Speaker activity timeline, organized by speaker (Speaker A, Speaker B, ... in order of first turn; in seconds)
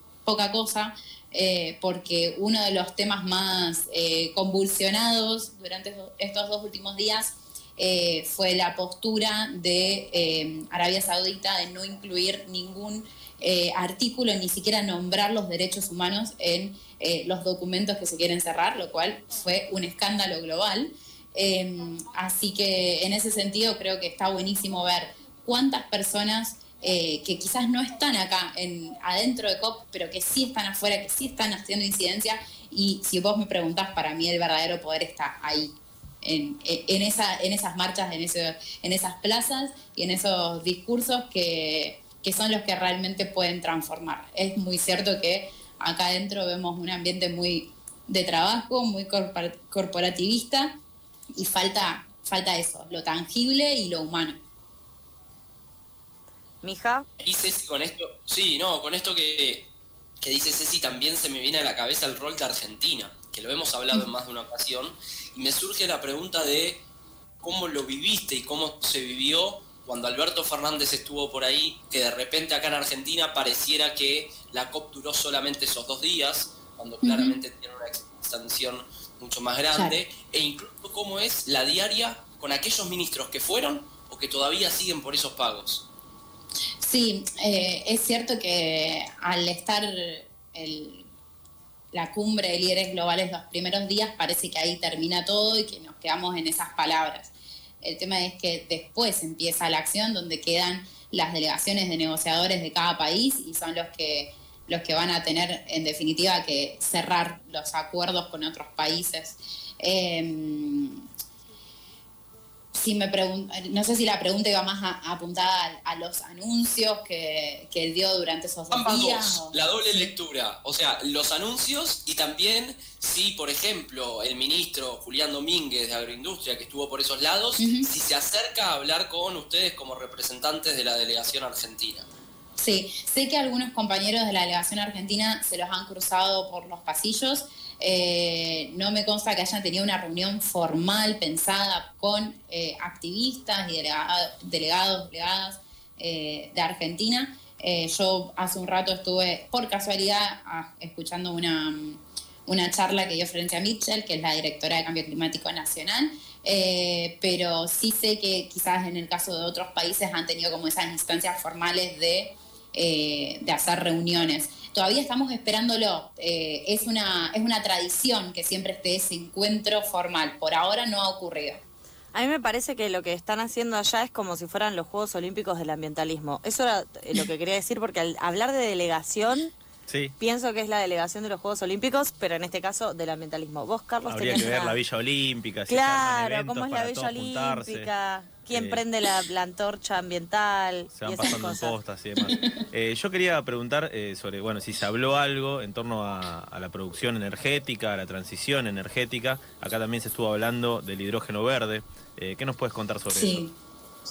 Speaker A: 0.3-50.7, 51.3-54.4, 77.0-77.4, 86.8-91.1, 91.9-97.3, 97.8-111.0, 112.8-120.1, 127.6-127.9, 132.6-171.6, 192.2-192.5, 203.1-203.5
Speaker B: 56.6-57.1, 172.1-179.5, 180.2-184.8, 185.7-191.8
Speaker C: 57.2-59.7, 60.2-66.8, 67.4-85.8, 118.7-132.1
Speaker D: 179.9-180.2, 184.1-187.9, 188.5-188.8, 190.9-203.4